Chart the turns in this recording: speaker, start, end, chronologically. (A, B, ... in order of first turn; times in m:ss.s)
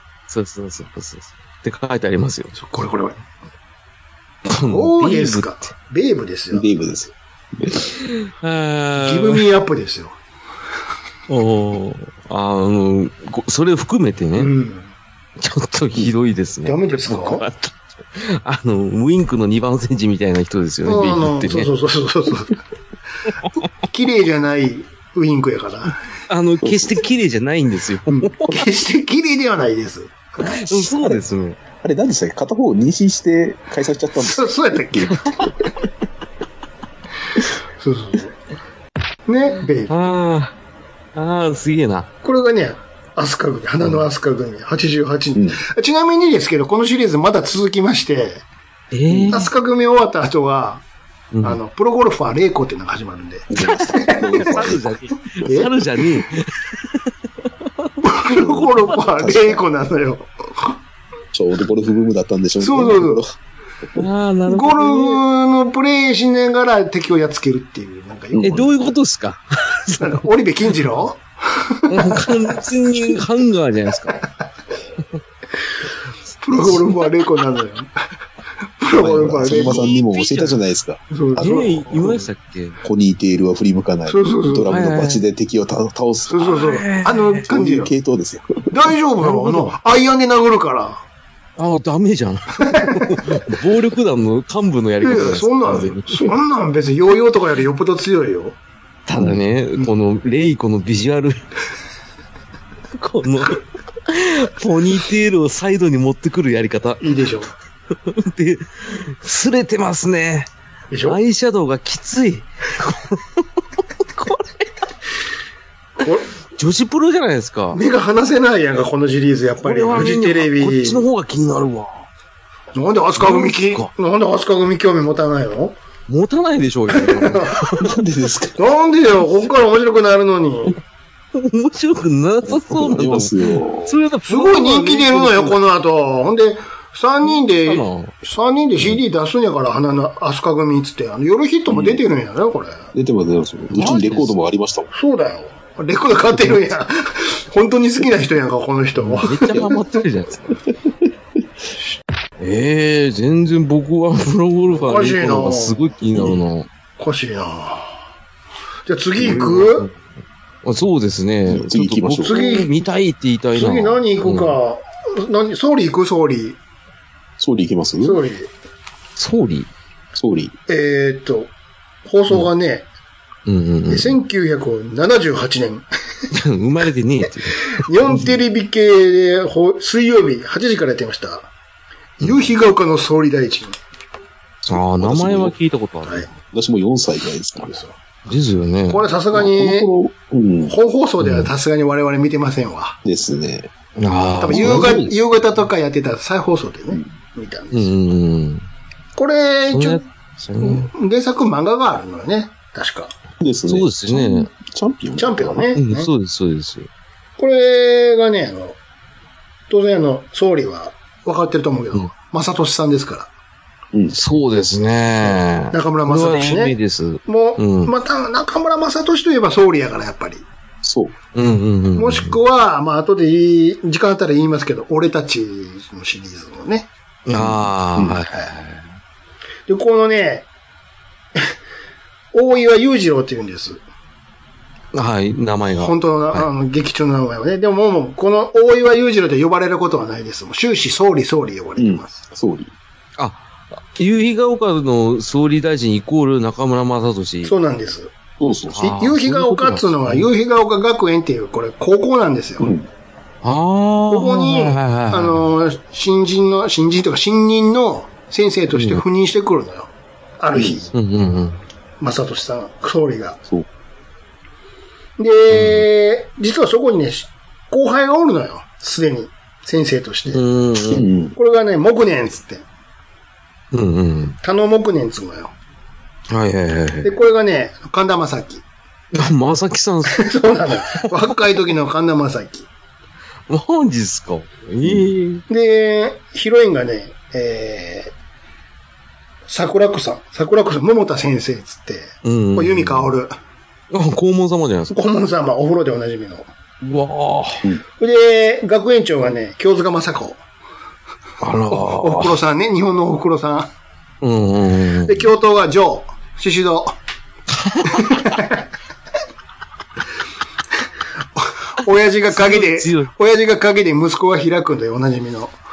0:00.3-0:02.5 A
0:02.6-0:03.2 B
0:04.5-0:05.5 A
0:04.6-0:06.7 B
0:06.5-0:07.9 C
0:08.0-0:09.4 A
0:09.0-0:10.2 B
0:11.3-0:14.5 A
0:14.4-0:14.9 B
0:15.4-0:21.7 A
0:16.6-0:17.4 B
0:20.9-0:22.6 B
0:23.9-0:26.0 B
0:26.3-0:28.6 A
0:26.6-0:27.0 C
0:28.1-0:31.0 B
0:30.5-0:31.6 A
0:31.8-0:35.5 C
0:34.2-0:35.3 B
0:37.8-0:38.4 B
0:39.3-0:40.0 B
0:39.9-0:40.5 A
0:41.2-0:42.1 A
0:42.2-0:48.4 B
0:45.4-0:45.6 C
0:48.9-0:49.5 A
0:49.1-0:49.4 C
0:49.3-0:50.8 B
0:51.3-0:51.6 A
0:51.4-0:54.7 B
0:53.5-0:54.9 C
0:54.3-0:57.1 A
0:55.4-0:55.7 B
0:58.0-1:00.8 B
0:58.3-0:59.6 C
1:01.3-1:03.3 C
1:02.6-1:03.2 B
1:04.0-1:05.2 A
1:04.5-1:08.6 B
1:08.3-1:08.7 C
1:08.4-1:10.2 A
1:09.9-1:12.3 B
1:11.9-1:14.2 A
1:16.4-1:17.9 B
1:16.6-1:16.9 A
1:18.8-1:20.0 B
1:18.9-1:22.2 C
1:19.5-1:20.5 A
1:21.1-1:22.2 B
1:21.4-1:22.8 A
1:22.8-1:26.6 C
1:24.1-1:24.7 B
1:24.7-1:25.2 A
1:26.3-1:27.9 B
1:26.4-1:27.4 A
1:27.4-1:28.7 C
1:28.7-1:31.0 B
1:29.2-1:29.7 A
1:31.6-1:36.3 A
1:32.6-1:33.3 B
1:35.0-1:38.6 B
1:39.1-1:41.4 A
1:43.0-1:47.0 A
1:47.0-1:47.5 B
1:48.1-1:50.5 A
1:50.9-1:51.2 B
1:51.0-1:54.7 A
1:56.0-1:56.3 B
1:56.6-1:57.8 A
1:57.7-2:01.0 B
1:59.6-2:02.1 A
2:02.8-2:05.8 B
2:03.2-2:03.9 A
2:06.1-2:08.0 A
2:06.9-2:07.6 B
2:07.8-2:08.6 C
2:08.6-2:10.8 B
2:11.3-2:15.6 A
2:12.5-2:14.0 C
2:14.3-2:22.9 B
2:17.3-2:18.1 A
2:21.7-2:22.0 C
2:22.9-2:24.9 C
2:23.7-2:24.4 A
2:24.9-2:29.8 B
2:29.0-2:30.6 A
2:29.5-2:29.8 C
2:32.4-2:36.7 A
2:34.7-2:35.8 B
2:36.1-2:36.4 C
2:37.0-2:38.0 B
2:38.9-2:39.9 B
2:39.2-2:40.0 A
2:40.6-2:44.6 A
2:41.5-2:42.4 C
2:42.3-2:42.7 B
2:43.6-2:46.6 B
2:47.4-2:48.2 C
2:48.0-2:48.5 B
2:49.2-2:49.7 A
2:50.2-2:50.6 C
2:50.7-2:51.5 B
2:52.0-2:52.9 B
2:53.5-2:54.2 A
2:53.9-2:55.8 B
2:56.3-2:58.2 A
2:57.7-3:01.5 B
3:02.2-3:03.8 B
3:04.6-3:05.6 C
3:04.7-3:06.3 A
3:06.5-3:07.8 C
3:07.7-3:08.0 B
3:08.3-3:09.0 A
3:08.9-3:09.9 B
3:09.3-3:10.8 C
3:10.7-3:13.0 B
3:11.2-3:11.5 A
3:13.0-3:13.7 C
3:14.0-3:15.1 A
3:14.4-3:17.9 B
3:14.5-3:15.1 C
3:17.7-3:18.7 A
3:19.2-3:20.0 B
3:19.7-3:20.9 A
3:20.6-3:23.1 B
3:23.4-3:25.7 C
3:23.7-3:24.5 A
3:25.2-3:26.1 B
3:25.8-3:26.9 A
3:27.4-3:28.8 B
3:29.7-3:33.3 B
3:34.1-3:37.9 A
3:35.3-3:36.8 B
3:37.3-3:40.4 B
3:40.8-3:41.1 C
3:41.4-3:42.4 A
3:42.0-3:46.9 B
3:47.3-3:48.9 A
3:47.3-3:48.2 C
3:49.7-3:50.5 B
3:52.3-3:53.8 B
3:54.9-3:56.5 A
3:55.8-4:02.2 B
4:01.8-4:02.7 C
4:03.2-4:07.5 A
4:07.4-4:08.1 B
4:08.4-4:08.8 C
4:08.7-4:10.3 A
4:08.8-4:12.7 B
4:12.6-4:12.9 C
4:13.4-4:15.5 A
4:14.1-4:20.9 B
4:18.7-4:19.0 A
4:20.6-4:20.9 C
4:20.9-4:21.6 A
4:22.0-4:23.4 B
4:25.2-4:30.4 B
4:25.5-4:25.8 A
4:30.3-4:31.1 A
4:30.9-4:31.4 C
4:31.4-4:32.6 B
4:33.7-4:34.4 A
4:34.4-4:35.5 B
4:36.3-4:37.1 A
4:37.0-4:38.6 B
4:39.1-4:40.3 A
4:40.1-4:42.7 B
4:43.5-4:45.4 A
4:44.8-4:45.1 C
4:45.5-4:48.1 B
4:49.5-4:53.4 B
4:52.2-4:53.1 A
4:53.9-4:55.0 A
4:54.9-4:56.5 B
4:56.8-4:57.7 A
4:58.0-5:00.4 B
5:01.4-5:02.4 A
5:01.7-5:03.7 B
5:04.2-5:05.3 A
5:05.0-5:07.0 B
5:07.6-5:08.2 A
5:07.9-5:08.6 B
5:11.4-5:15.5 B
5:12.3-5:13.1 A